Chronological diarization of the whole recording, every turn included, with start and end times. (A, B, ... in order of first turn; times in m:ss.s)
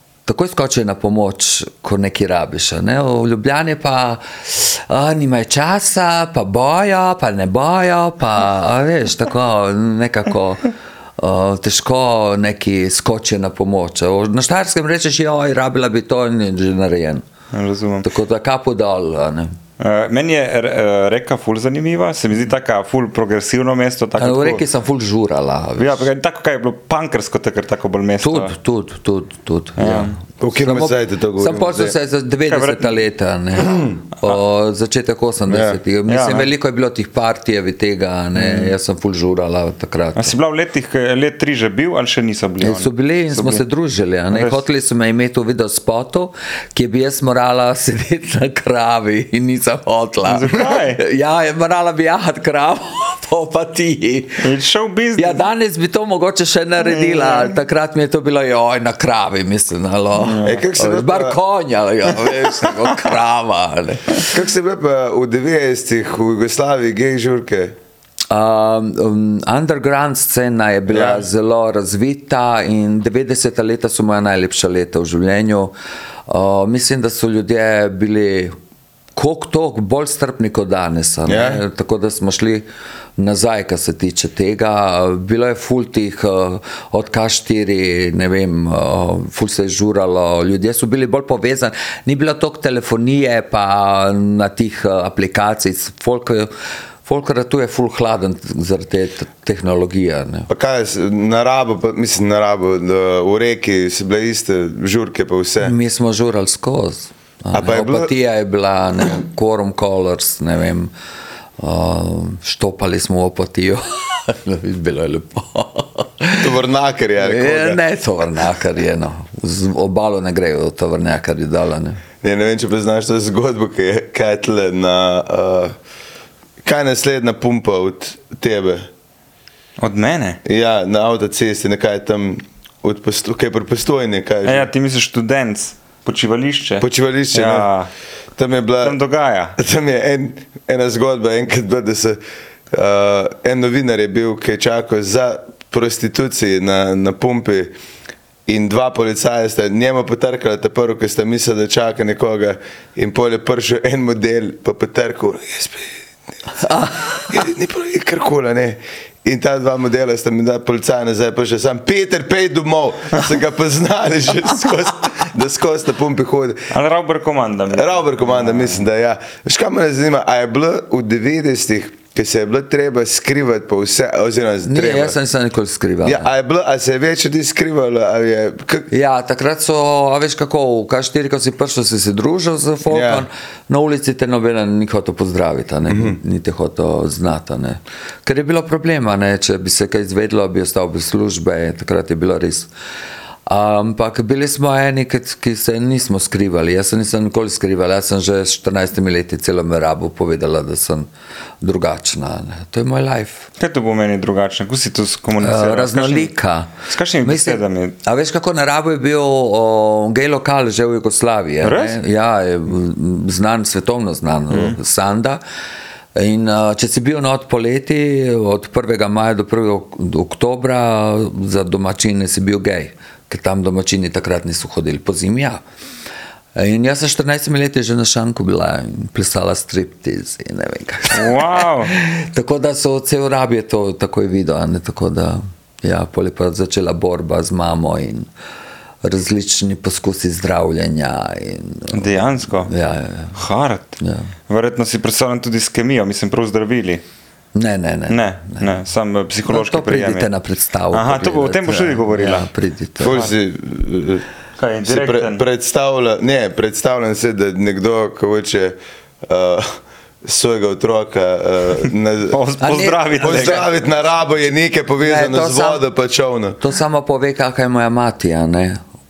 0:00.2-0:17.2 A
0:17.5-0:18.1 B
0:18.0-0:19.5 A
0:19.8-0:24.6 B
0:24.2-0:26.1 A
0:25.8-0:28.5 B
0:28.2-0:40.3 A
0:29.8-0:30.2 B
0:30.4-0:31.9 C
0:32.5-0:33.0 B
0:35.5-0:35.8 C
0:36.1-0:36.5 B
0:38.3-0:38.7 B
0:40.2-0:43.6 B
0:42.6-0:54.5 A
0:44.3-0:44.6 B
0:50.2-0:51.0 B
0:54.4-0:55.4 B
0:55.2-1:04.3 A
0:56.8-0:57.5 B
1:00.2-1:00.6 B
1:00.4-1:01.4 C
1:04.3-1:07.7 C
1:08.3-1:15.7 A
1:10.9-1:11.2 C
1:16.3-1:18.6 A
1:19.2-1:22.6 A
1:21.3-1:21.6 C
1:23.2-1:36.5 A
1:37.0-1:40.5 A
1:40.5-1:45.7 C
1:45.6-1:50.9 A
1:47.5-1:48.1 C
1:51.6-1:56.5 A
1:56.4-1:57.8 C
1:57.2-2:02.0 A
2:02.2-2:05.8 C
2:06.6-2:08.9 C
2:09.8-2:10.4 B
2:10.4-2:14.7 C
2:14.4-2:17.9 B
2:16.8-2:17.7 C
2:18.4-2:19.0 C
2:18.8-2:19.5 B
2:19.6-2:22.2 C
2:22.7-2:27.7 C
2:28.5-2:36.0 C
2:36.6-2:37.3 A
2:37.3-2:46.7 C
2:46.7-2:48.8 B
2:47.7-2:55.2 C
2:54.6-2:56.3 A
2:56.0-2:58.9 C
2:58.9-3:12.7 A
3:02.9-3:03.2 C
3:05.9-3:06.2 C
3:13.4-3:21.1 A
3:21.6-3:23.5 A
3:23.6-3:27.9 B
3:25.4-3:35.4 A
3:31.6-3:32.0 B
3:34.5-3:34.8 B
3:36.1-3:45.6 A
3:46.6-3:58.3 A
3:51.1-3:51.9 B
3:59.0-4:02.0 A
4:01.9-4:02.7 B
4:02.6-4:03.4 A
4:03.3-4:07.0 B
4:04.0-4:04.3 A
4:07.5-4:08.7 A
4:08.1-4:10.3 B
4:09.5-4:13.2 A
4:10.9-4:12.5 B
4:13.0-4:14.2 C
4:13.0-4:13.3 B
4:14.6-4:15.4 B
4:14.8-4:22.4 C
4:22.3-4:23.6 B
4:22.6-4:23.6 A
4:23.2-4:26.6 C
4:25.0-4:25.8 A
4:26.6-4:28.8 A